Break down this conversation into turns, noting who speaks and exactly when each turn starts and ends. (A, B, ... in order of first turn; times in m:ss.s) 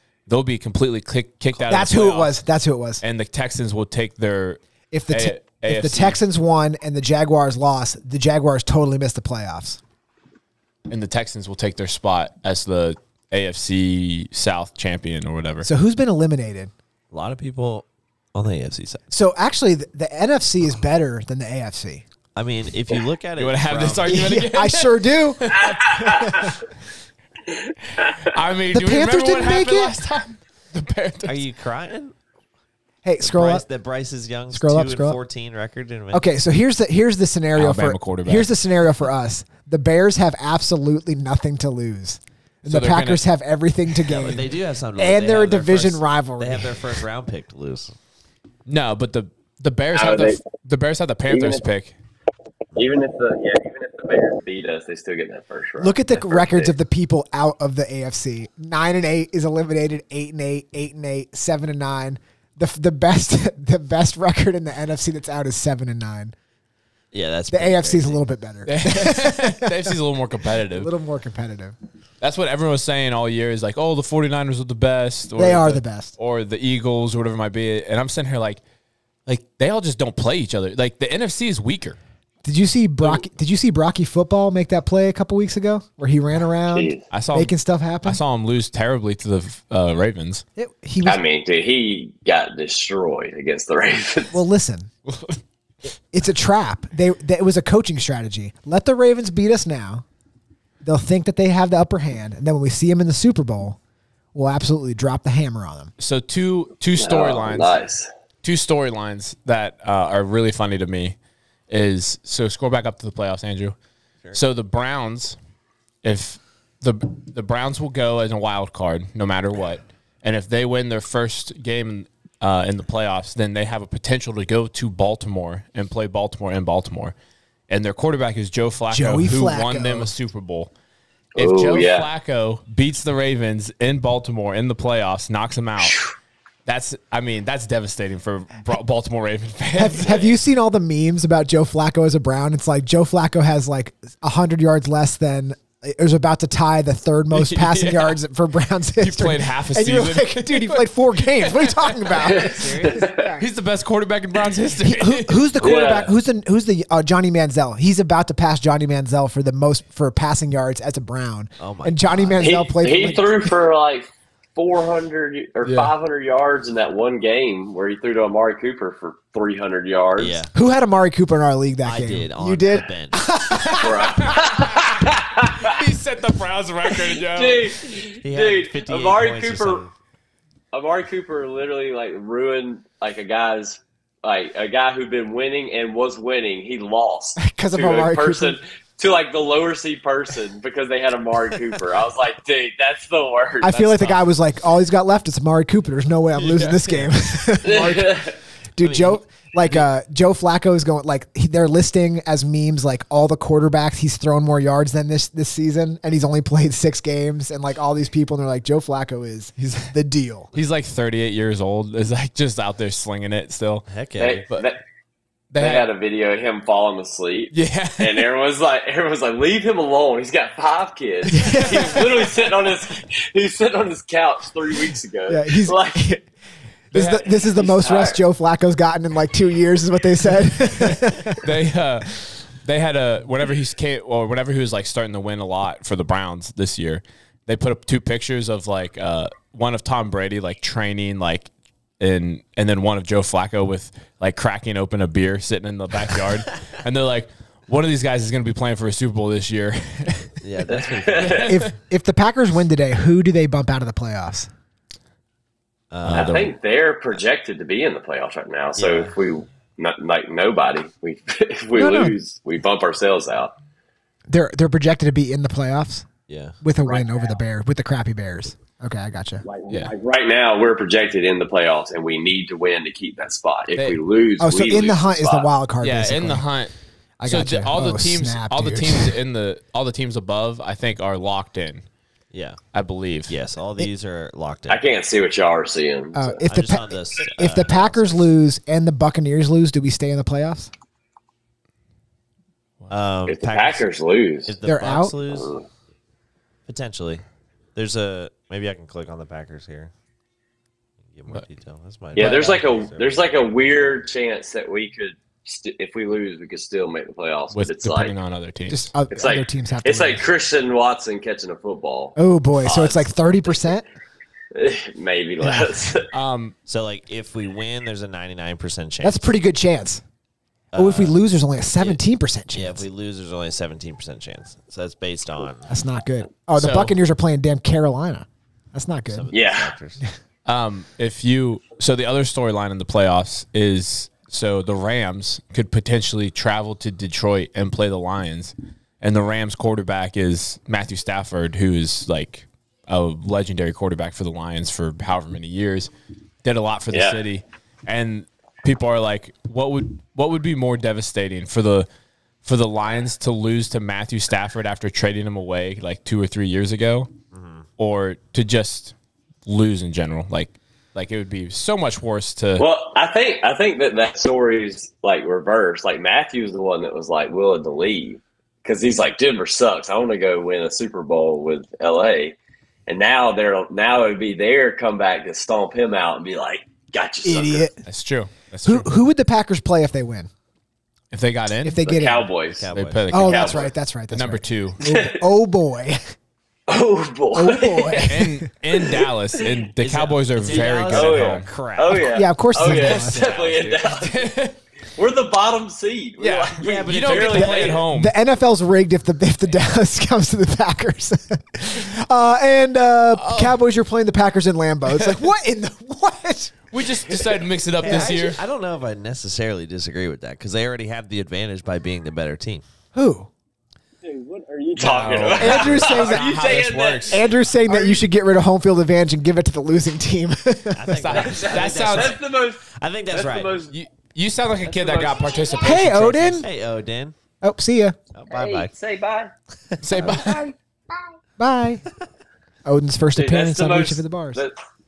0:00.3-0:02.4 A
0:01.7-0:03.0 B
0:03.0-0:06.2 A
0:04.9-0:09.8 B
0:10.9-0:15.7 A
0:15.6-0:16.7 B
0:17.1-0:19.0 C
0:19.1-0:22.0 B
0:22.4-0:24.2 C
0:23.4-0:25.8 A
0:24.1-0:26.6 B
0:25.5-0:26.6 D
0:27.5-0:28.3 D
0:28.1-0:31.4 A
0:28.7-0:29.9 B
0:31.2-0:32.1 C
0:33.0-0:33.6 B
0:33.2-0:36.2 C
0:34.5-0:35.2 B
0:36.1-0:47.0 B
0:37.6-0:38.5 A
0:42.6-0:43.2 A
0:44.0-0:47.9 C
0:48.6-0:51.9 A
0:49.9-0:50.4 D
0:51.3-0:51.6 D
0:52.7-0:56.7 D
0:55.8-1:06.3 B
1:07.1-1:08.2 C
1:07.5-1:10.0 B
1:08.6-1:10.9 A
1:10.7-1:11.7 B
1:12.2-1:18.6 A
1:15.4-1:16.1 B
1:19.2-1:22.0 A
1:22.4-1:28.2 B
1:26.7-1:27.0 D
1:27.1-1:30.4 A
1:30.6-1:31.2 B
1:31.0-1:34.4 D
1:34.3-1:34.9 B
1:35.1-1:35.4 A
1:36.1-1:40.0 B
1:40.8-1:43.8 B
1:44.3-1:45.9 B
1:46.0-1:47.8 A
1:47.0-1:48.1 D
1:48.4-1:51.2 A
1:51.7-1:53.7 A
1:54.3-1:55.4 A
1:56.0-2:07.1 A
2:07.7-2:10.7 A
2:08.9-2:10.1 B
2:11.4-2:12.1 D
2:11.4-2:16.0 A
2:16.6-2:20.3 A
2:19.7-2:33.4 B
2:27.3-2:28.2 A
2:29.0-2:32.3 A
2:32.2-2:33.3 D
2:32.4-2:33.0 C
2:33.4-2:35.6 A
2:34.8-2:43.5 B
2:35.6-2:36.1 D
2:41.6-2:42.5 C
2:42.4-2:50.4 D
2:45.6-2:45.9 A
2:50.2-2:50.5 C
2:50.5-2:54.1 B
2:51.8-2:53.3 C
2:53.7-2:55.7 D
2:54.0-2:57.7 A
2:56.8-2:59.8 D
2:58.2-2:59.9 C
3:00.7-3:14.1 D
3:07.4-3:08.6 B
3:13.6-3:30.5 B
3:16.4-3:17.1 A
3:17.6-3:18.4 D
3:18.8-3:19.8 C
3:30.5-3:33.8 A
3:33.9-3:34.4 C
3:34.2-3:34.8 D
3:35.5-3:35.8 A
3:35.6-3:46.2 D
3:37.5-3:38.2 A
3:41.3-3:42.2 B
3:45.3-3:46.2 B
3:46.9-3:51.4 B
3:46.9-3:47.2 A
3:47.3-3:48.2 D
3:50.8-4:10.3 A
4:10.4-4:11.5 C
4:10.7-4:11.5 D
4:11.2-4:11.7 A
4:11.4-4:14.5 B
4:15.9-4:16.4 C
4:16.0-4:16.5 A
4:16.1-4:23.5 D
4:18.8-4:19.1 C
4:21.7-4:22.1 B
4:24.3-4:26.1 B
4:26.3-4:26.6 C
4:26.6-4:29.4 B
4:26.8-4:27.2 D
4:29.4-4:35.5 D
4:34.4-4:36.4 B
4:35.8-4:36.7 A
4:37.2-4:39.2 B
4:37.2-4:41.8 A
4:42.3-4:42.6 C
4:42.7-4:43.3 A
4:43.3-4:44.8 C
4:44.7-4:46.4 D
4:46.1-4:50.7 B
4:46.4-4:48.4 C
4:52.9-4:53.8 C
4:53.3-4:54.6 D
4:54.5-4:55.5 C
4:54.6-4:55.1 B
4:55.2-4:55.6 D
4:56.7-4:57.2 C
4:57.7-4:59.9 C
5:01.1-5:03.3 C
5:02.2-5:08.1 D
5:02.2-5:02.4 A
5:07.5-5:08.9 A
5:08.7-5:10.2 B
5:09.1-5:13.7 D
5:12.2-5:13.8 B
5:14.5-5:16.1 D
5:15.4-5:15.9 B
5:16.1-5:16.5 A
5:16.6-5:19.3 C
5:19.0-5:20.0 B
5:20.7-5:21.2 C
5:20.7-5:22.9 B
5:21.7-5:22.0 C
5:22.5-5:25.7 C
5:25.7-5:29.3 B
5:26.6-5:27.0 A
5:29.1-5:30.0 C
5:29.3-5:29.7 D
5:30.4-5:45.9 A
5:46.4-5:51.9 A
5:46.9-5:47.2 D
5:52.4-5:57.1 A
5:57.3-5:57.6 C
5:57.8-5:58.9 A
5:59.4-6:02.6 A
6:02.6-6:17.7 D
6:17.2-6:17.8 B
6:17.8-6:18.9 A
6:18.6-6:20.3 B
6:21.1-6:21.8 A
6:21.6-6:22.3 B
6:21.8-6:23.7 D
6:22.5-6:23.1 C
6:22.7-6:24.8 A
6:23.1-6:26.0 B
6:24.8-6:25.2 D
6:26.7-6:28.2 D
6:27.3-6:28.4 B
6:28.1-6:31.8 A
6:28.7-6:29.0 D
6:29.8-6:32.1 C
6:30.4-6:34.3 D
6:32.1-6:33.3 B
6:32.7-6:33.8 C
6:33.8-6:34.6 A
6:35.0-6:37.9 D
6:36.2-6:38.1 A
6:36.6-6:37.7 C
6:37.4-6:46.5 B
6:43.1-6:43.6 A
6:46.7-6:48.4 A
6:47.8-6:52.6 C
6:47.8-6:48.2 B
6:52.9-6:53.3 B
6:54.0-6:58.0 D
6:54.8-6:57.2 A
6:55.3-6:55.6 C
6:55.4-6:56.5 B
6:57.1-7:00.9 B
7:00.7-7:03.6 C
7:00.9-7:02.2 A
7:01.1-7:03.7 D
7:03.7-7:06.4 A
7:04.6-7:05.6 D
7:05.6-7:06.5 B
7:06.4-7:07.2 C
7:07.4-7:08.0 B
7:08.1-7:08.7 C
7:08.3-7:09.3 D
7:09.7-7:10.2 C
7:09.8-7:10.4 A
7:10.0-7:10.5 D
7:11.4-7:11.8 B
7:12.6-7:14.4 B
7:13.2-7:14.5 D